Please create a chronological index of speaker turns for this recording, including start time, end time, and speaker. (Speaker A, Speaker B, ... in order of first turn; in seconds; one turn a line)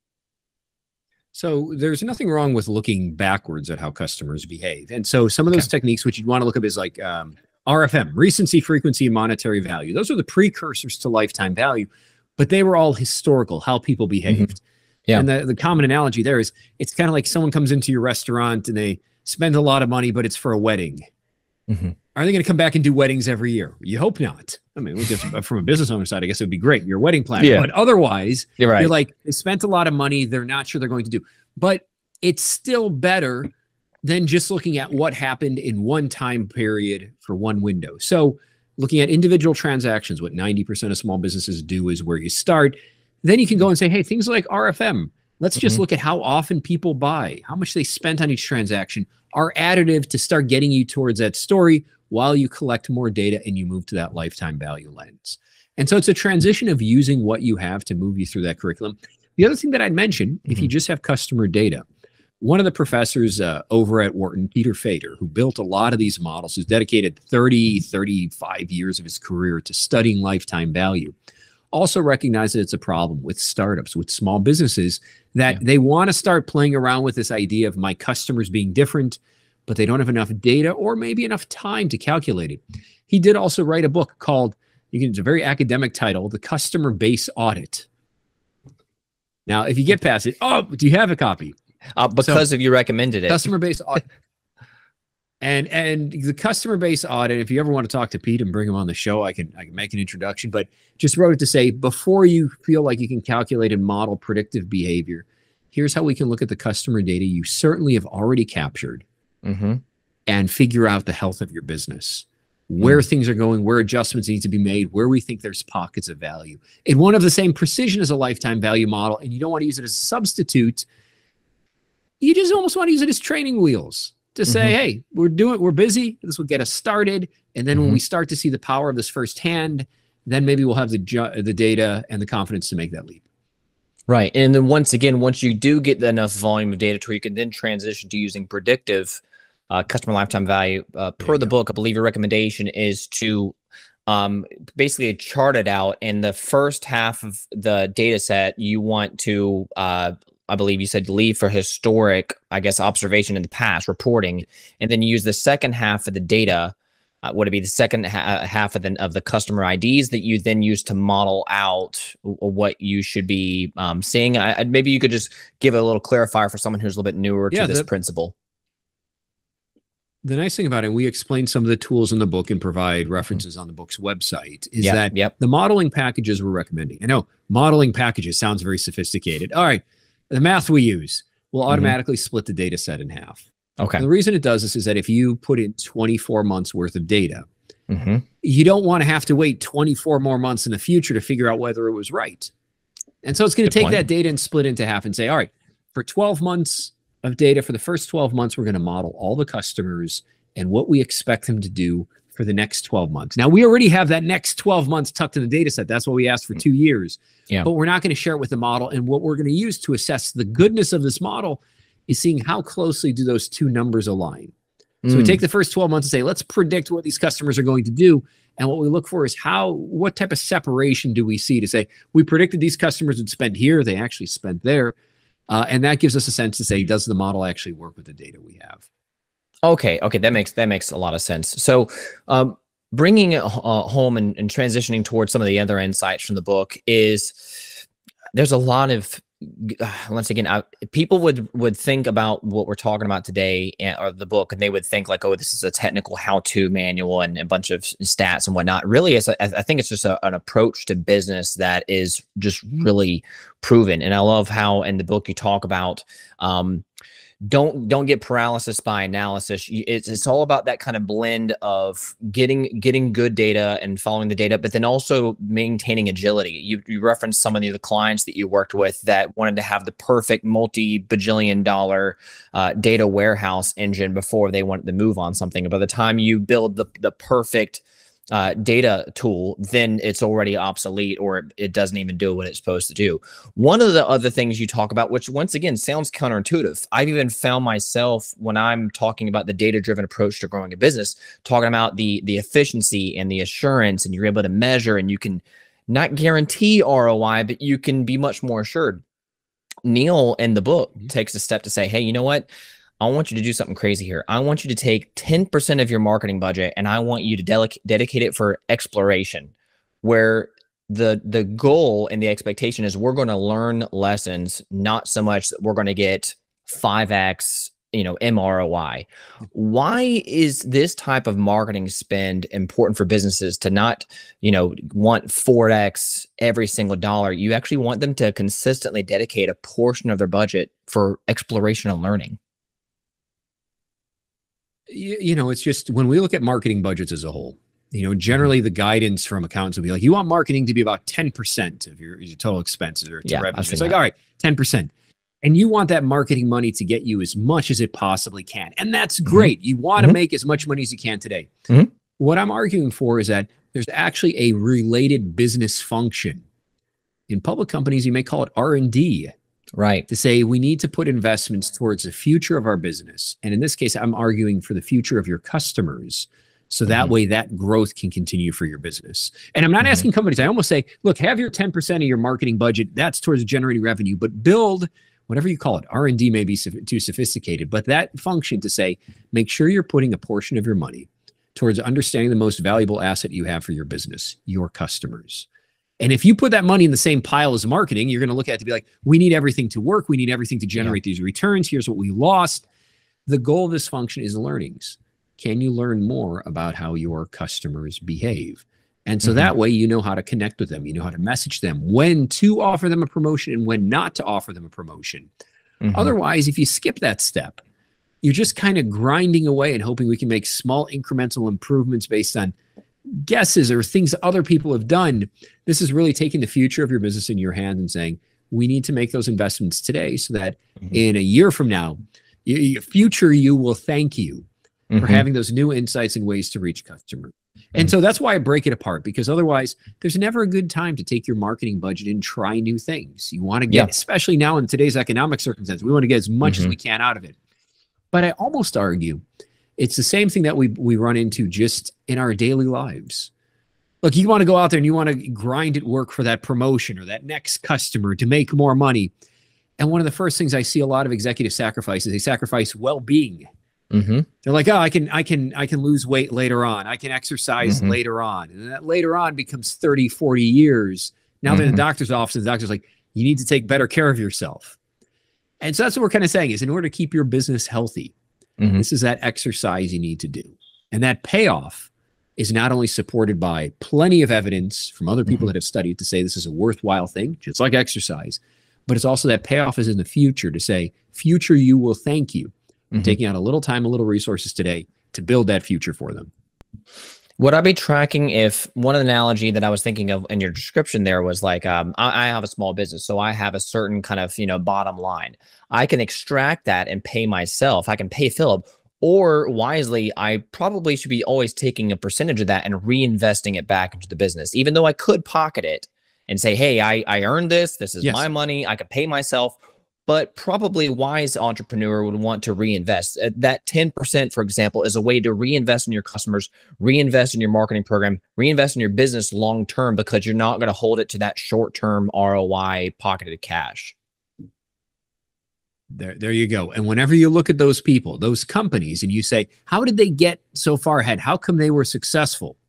Speaker A: 1.3-14.6
Speaker A: 15.1-21.1
Speaker B: 21.7-21.9
Speaker A: 22.1-33.5
Speaker B: 27.4-27.7
Speaker B: 28.6-28.9
Speaker A: 34.0-61.8
Speaker A: 62.4-71.1
Speaker A: 71.7-87.8
Speaker A: 89.5-91.6
Speaker B: 92.0-93.5
Speaker A: 92.2-92.4
Speaker A: 93.3-94.0
Speaker A: 95.4-109.0
Speaker B: 109.4-109.8
Speaker A: 110.3-120.8
Speaker A: 122.2-133.2
Speaker B: 124.5-124.7
Speaker B: 127.7-128.0
Speaker B: 134.1-143.5
Speaker B: 144.1-168.3
Speaker A: 167.5-167.9
Speaker A: 170.2-183.4
Speaker B: 174.8-175.3
Speaker B: 181.7-181.9
Speaker B: 183.8-184.1
Speaker A: 184.0-187.5
Speaker B: 187.9-188.2
Speaker A: 188.4-192.5
Speaker A: 193.2-214.5
Speaker B: 193.7-194.0
Speaker B: 215.0-215.4
Speaker A: 215.1-224.9
Speaker A: 225.5-228.8
Speaker B: 229.6-237.7
Speaker B: 238.3-256.8
Speaker B: 257.5-299.0
Speaker B: 299.8-302.5
Speaker B: 303.0-332.4
Speaker A: 334.9-344.9
Speaker B: 343.2-344.0
Speaker A: 345.4-351.5
Speaker B: 349.2-350.2
Speaker A: 352.2-356.4
Speaker A: 357.3-359.3
Speaker B: 359.8-360.1
Speaker A: 360.1-385.5
Speaker A: 386.0-392.6
Speaker A: 393.3-405.3
Speaker B: 399.2-399.5
Speaker B: 405.8-406.1
Speaker A: 405.9-407.6
Speaker A: 408.2-412.5
Speaker A: 413.1-424.5
Speaker B: 424.9-425.2
Speaker A: 425.0-437.3
Speaker B: 436.4-436.7
Speaker A: 438.1-439.2
Speaker A: 439.8-443.3
Speaker A: 444.0-449.1
Speaker A: 449.8-453.4
Speaker B: 453.9-454.3
Speaker A: 454.4-464.8
Speaker B: 457.6-457.9
Speaker B: 461.5-461.8
Speaker A: 465.6-468.1
Speaker A: 468.8-486.3
Speaker B: 487.4-523.9
Speaker A: 508.0-508.3
Speaker A: 525.9-532.6